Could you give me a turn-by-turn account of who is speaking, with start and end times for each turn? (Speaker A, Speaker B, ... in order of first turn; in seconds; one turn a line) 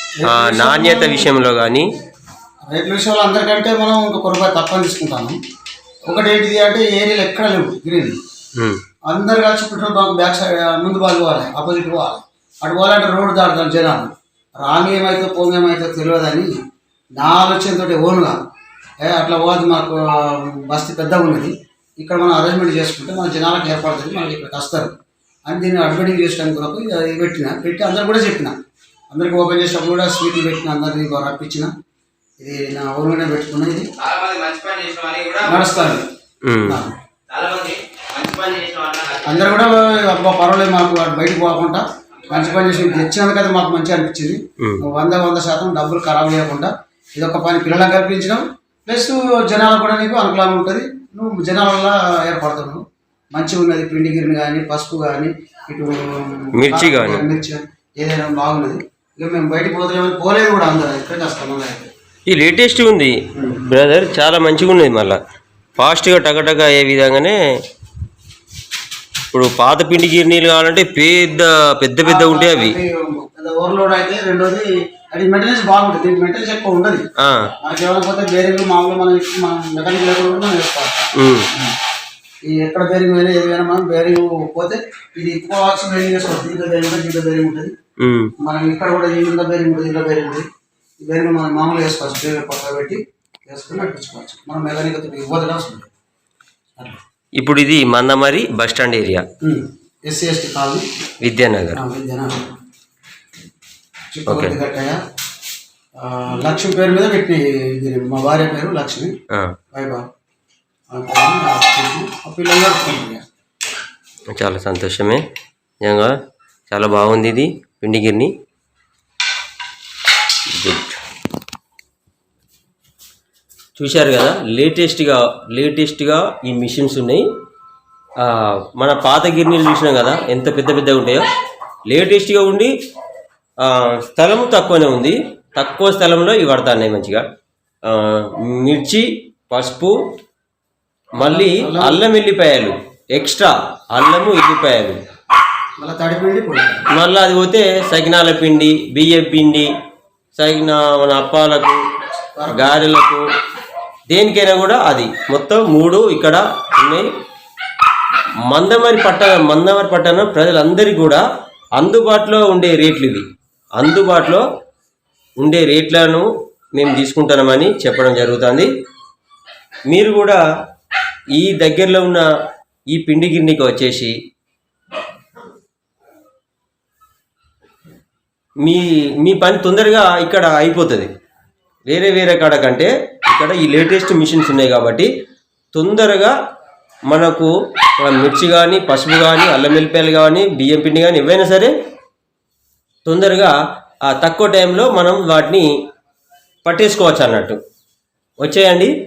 Speaker A: 0.2-1.3
Speaker B: 0.2-1.9
Speaker A: 2.7-5.4
Speaker A: 6.1-8.2
Speaker A: 9.1-16.5
Speaker A: 17.2-18.4
Speaker A: 19.0-24.9
Speaker A: 25.5-28.6
Speaker A: 29.1-31.7
Speaker A: 32.4-33.9
Speaker C: 34.0-35.6
Speaker A: 35.4-36.1
Speaker B: 36.4-36.8
Speaker A: 36.6-37.0
Speaker C: 37.3-39.4
Speaker A: 39.2-52.8
Speaker A: 53.3-61.9
Speaker B: 56.5-57.2
Speaker B: 62.3-65.2
Speaker A: 63.4-63.6
Speaker B: 65.8-67.4
Speaker B: 69.3-72.8
Speaker A: 72.0-77.0
Speaker B: 77.2-77.5
Speaker A: 77.6-81.8
Speaker B: 81.2-81.5
Speaker A: 82.5-87.7
Speaker B: 88.0-88.3
Speaker A: 88.4-90.5
Speaker A: 91.0-95.9
Speaker B: 97.4-99.2
Speaker A: 99.4-100.9
Speaker B: 101.2-101.8
Speaker A: 101.7-102.5
Speaker A: 104.1-105.0
Speaker B: 104.3-104.5
Speaker A: 106.0-109.1
Speaker A: 109.7-110.0
Speaker A: 110.9-113.2
Speaker B: 114.3-115.2
Speaker B: 115.8-116.2
Speaker B: 116.7-118.3
Speaker B: 120.5-121.0
Speaker B: 123.8-127.3
Speaker B: 128.2-131.2
Speaker B: 131.9-132.7
Speaker B: 133.6-137.2
Speaker B: 137.9-140.0
Speaker B: 141.2-145.0
Speaker A: 141.2-142.0
Speaker A: 145.8-146.8
Speaker B: 146.9-149.7
Speaker B: 150.3-151.8
Speaker A: 152.3-152.8
Speaker B: 152.5-153.2
Speaker B: 154.1-157.1
Speaker B: 158.5-161.2
Speaker B: 161.8-163.3
Speaker B: 163.8-164.4
Speaker B: 165.4-168.7
Speaker B: 169.9-170.4
Speaker B: 171.3-172.3
Speaker B: 172.9-174.1
Speaker B: 178.6-181.1
Speaker B: 181.9-185.1
Speaker B: 185.7-186.3
Speaker B: 187.1-191.7
Speaker B: 193.1-195.7
Speaker B: 196.7-197.6
Speaker B: 198.4-198.9